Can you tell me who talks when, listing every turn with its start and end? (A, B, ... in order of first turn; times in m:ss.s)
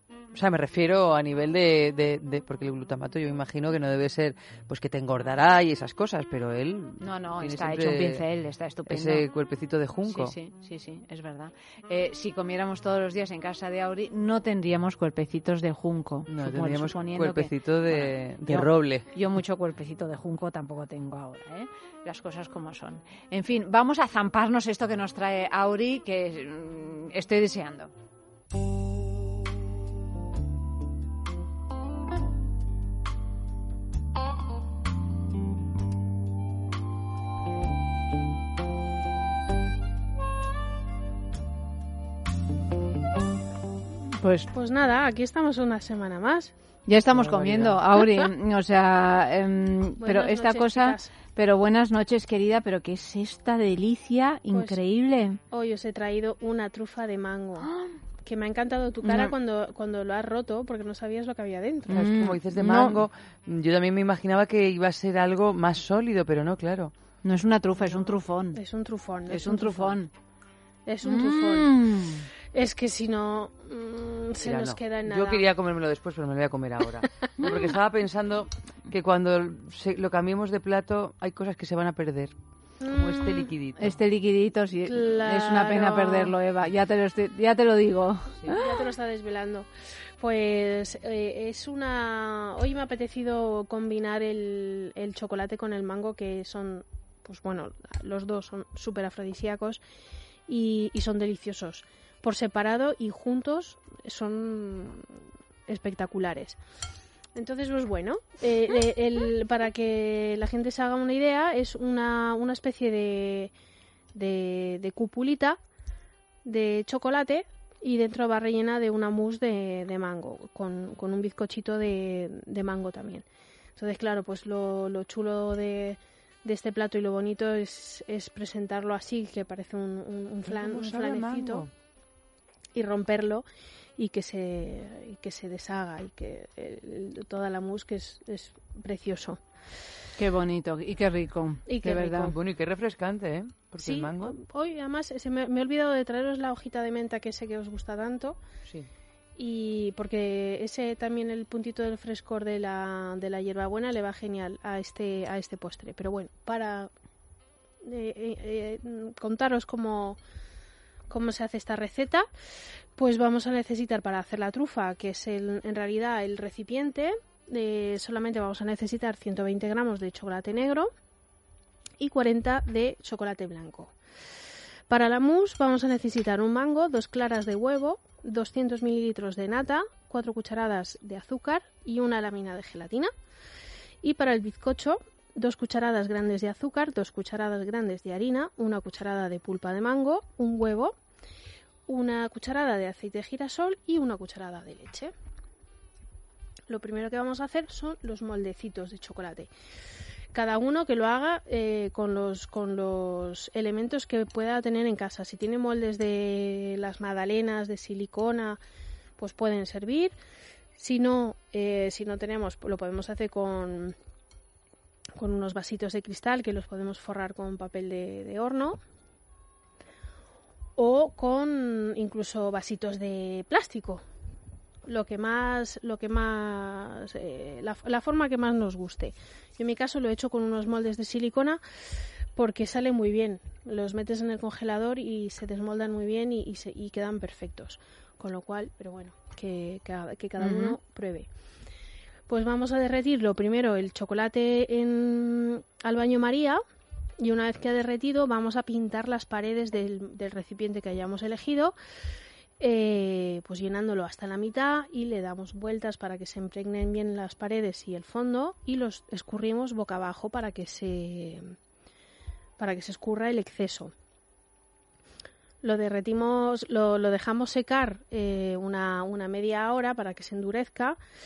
0:00.3-0:08.2 A
0:07.0-0:09.2 B
0:08.8-0:10.3 A
0:10.0-0:27.9 B
0:16.3-0:19.1 A
0:44.2-0:44.5 B
0:44.5-0:46.5 C
0:46.9-0:55.4 B
0:47.1-0:47.8 A
0:50.0-0:51.1 C
0:54.5-0:54.8 C
0:55.5-0:57.7 C
0:57.6-0:57.9 B
0:58.2-1:01.9 C
0:59.0-0:59.3 B
1:01.9-1:03.0 B
1:01.9-1:06.9 A
1:07.2-1:08.6 B
1:07.8-1:10.0 C
1:09.3-1:10.1 B
1:10.9-1:11.7 C
1:11.0-1:12.2 B
1:12.5-1:15.4 C
1:14.4-1:24.0 A
1:22.8-1:23.4 C
1:23.8-1:28.6 B
1:24.9-1:26.3 C
1:28.4-1:29.7 C
1:30.2-1:39.8 C
1:40.5-1:45.0 C
1:45.7-1:46.6 C
1:47.4-1:53.5 C
1:54.1-1:55.6 C
1:56.4-2:03.2 C
2:03.8-2:11.6 C
2:10.4-2:11.7 A
2:12.7-2:13.4 C
2:14.0-2:19.4 C
2:20.2-2:22.3 B
2:21.7-2:22.3 C
2:22.0-2:24.4 A
2:23.8-2:28.4 C
2:29.4-2:36.9 C
2:37.8-2:40.2 C
2:41.1-2:42.2 C
2:43.0-2:50.9 C
2:52.0-2:53.9 C
2:54.9-3:03.1 C
3:04.0-3:10.9 C
3:11.9-3:15.1 C
3:16.7-3:19.5 C
3:20.3-3:28.6 C
3:29.2-3:30.1 C
3:30.8-3:33.9 C
3:35.2-3:38.8 C
3:40.8-3:44.0 C
3:44.9-3:51.6 C
3:52.4-4:01.3 C
4:00.4-4:00.8 B
4:02.3-4:06.6 C
4:07.2-4:11.7 C
4:12.6-4:21.5 C
4:22.6-4:23.9 C
4:25.6-4:31.0 C